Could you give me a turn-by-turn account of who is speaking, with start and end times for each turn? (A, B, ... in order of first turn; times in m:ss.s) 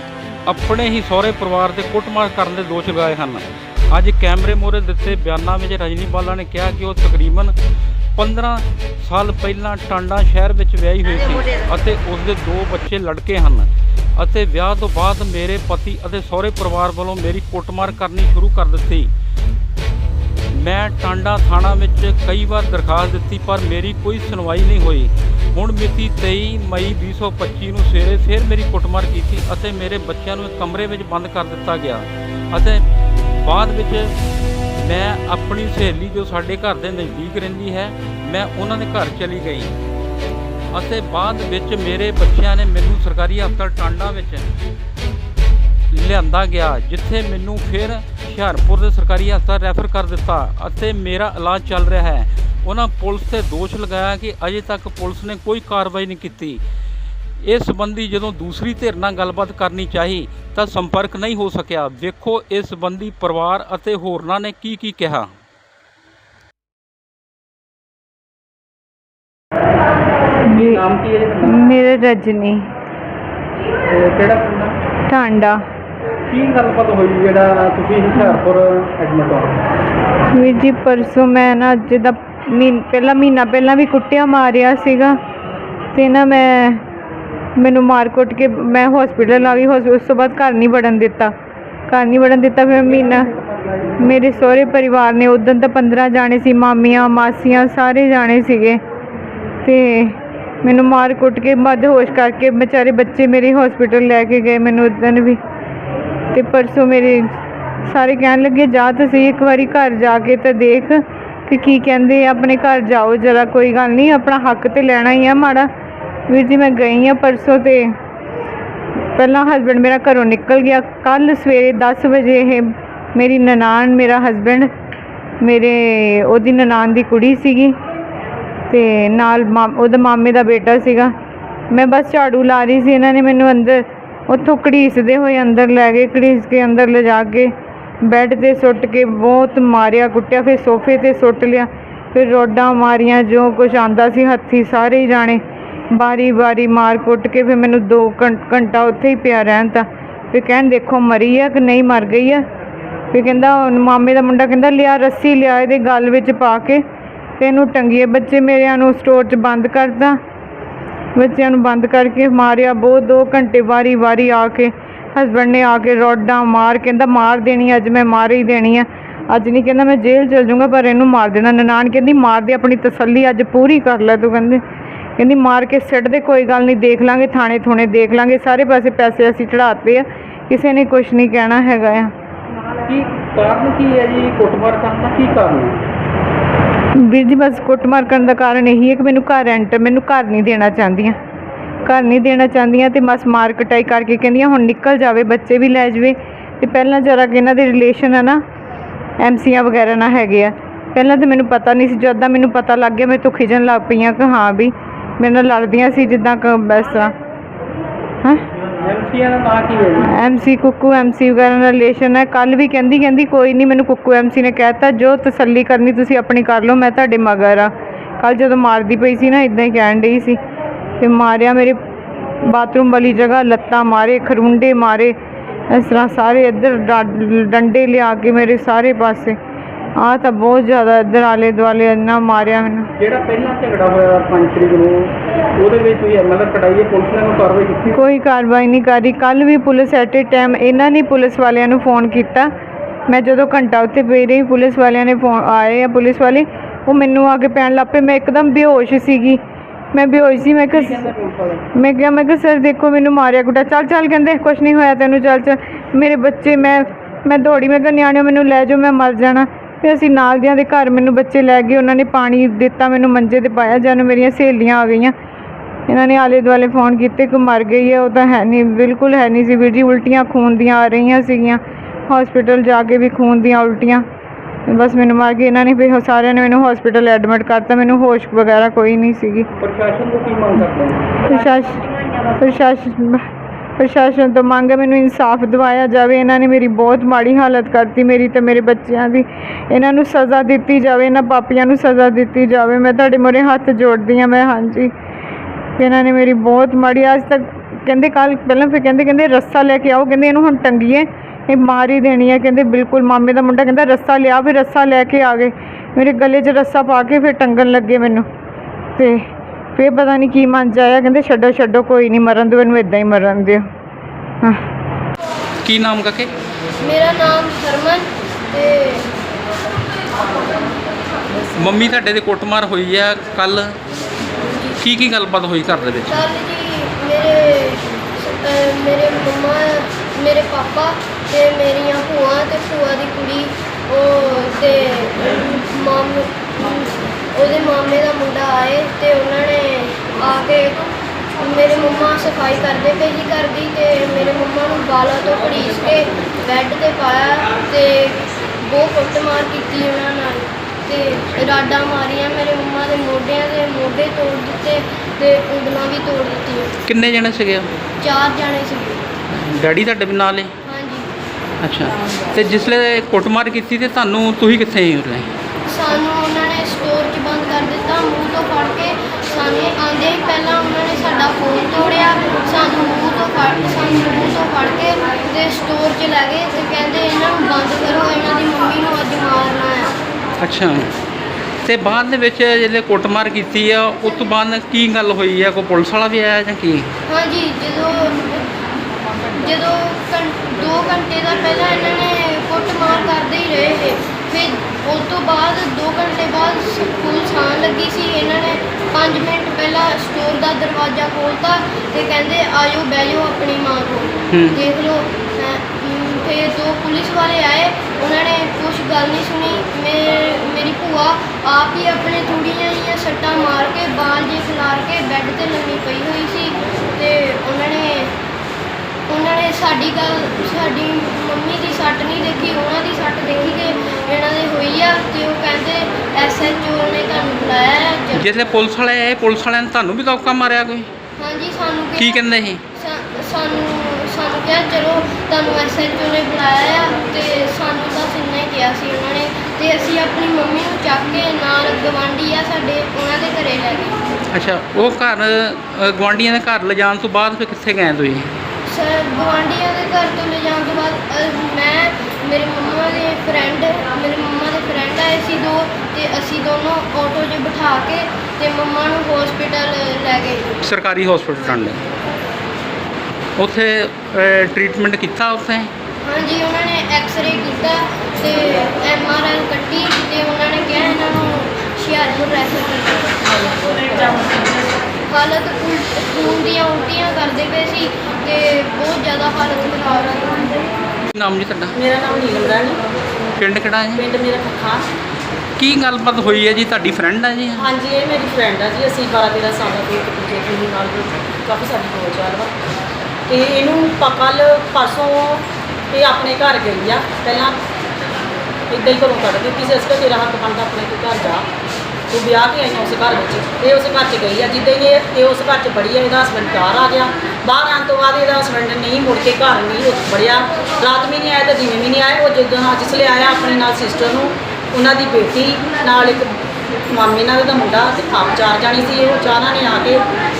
0:00.4-0:07.5 A
0:08.2-0:19.1 A
0:20.5-0:32.8 A
0:33.4-0:34.1 A
0:34.8-0:39.7 A
0:40.7-0:44.5 A
0:45.9-0:56.6 A
0:57.4-1:05.3 A
1:10.5-1:10.8 B
1:10.5-1:11.6 A
1:11.4-1:12.6 B
1:13.9-1:14.7 A
1:15.1-1:15.6 B
1:16.3-1:19.6 A
1:20.3-1:25.2 B
1:25.9-1:26.8 B
1:27.6-1:31.3 B
1:31.9-1:33.3 B
1:34.0-1:38.8 B
1:39.6-1:45.4 B
1:46.3-1:47.2 B
1:47.9-1:55.7 B
1:56.3-1:57.9 B
1:59.2-2:04.7 B
2:05.4-2:07.7 B
2:08.7-2:11.1 B
2:11.7-2:17.5 B
2:18.0-2:25.4 B
2:25.9-2:32.4 B
2:33.1-2:36.8 B
2:37.4-2:40.2 B
2:41.2-2:54.6 B
2:55.2-3:02.1 B
3:02.8-3:05.8 A
3:07.0-3:11.2 B
3:11.8-3:18.4 B
3:19.2-3:27.1 B
3:28.8-3:30.1 A
3:30.2-3:37.7 B
3:38.2-3:40.4 B
3:41.0-3:41.8 B
3:42.5-3:45.1 B
3:45.7-3:49.4 B
3:50.0-3:52.9 B
3:53.0-3:57.9 A
3:57.9-4:02.5 B
4:03.1-4:09.4 B
4:09.9-4:11.1 B
4:10.7-4:11.6 A
4:11.7-4:25.1 B
4:25.9-4:34.0 B
4:34.7-4:39.5 B
4:39.6-4:41.2 A
4:41.2-4:41.8 B
4:42.4-4:43.2 B
4:43.8-4:54.9 B
4:55.8-5:08.2 B
5:09.8-5:13.6 B
5:15.6-5:16.3 A
5:16.8-5:19.1 C
5:21.5-5:23.8 A
5:24.8-5:26.2 A
5:26.1-5:40.8 C
5:41.4-5:56.7 C
5:56.8-5:57.7 A
5:58.0-5:59.0 C
5:59.3-6:00.5 A
6:00.6-6:01.1 C
6:01.6-6:05.3 A
6:05.7-6:19.9 C
6:20.4-6:20.9 A
6:21.6-6:26.9 A
6:27.1-6:28.5 C
6:29.4-6:58.1 C
6:44.3-6:44.6 A
6:59.1-7:08.3 C
7:08.1-7:10.9 A
7:11.2-7:12.2 C
7:12.0-7:12.6 A
7:12.7-7:24.0 C
7:24.3-7:28.3 A
7:28.7-7:40.5 C
7:40.6-7:41.8 A
7:43.4-7:45.7 A
7:46.0-7:53.2 C
7:53.3-7:54.6 D
7:55.1-8:00.6 C
8:01.1-8:01.7 A
8:01.7-8:02.8 D
8:03.4-8:04.0 A
8:03.9-8:04.9 D
8:05.6-8:07.7 A
8:07.6-8:12.5 D
8:13.3-8:17.6 D
8:18.7-8:21.5 D
8:22.1-8:36.3 D
8:36.9-8:40.0 D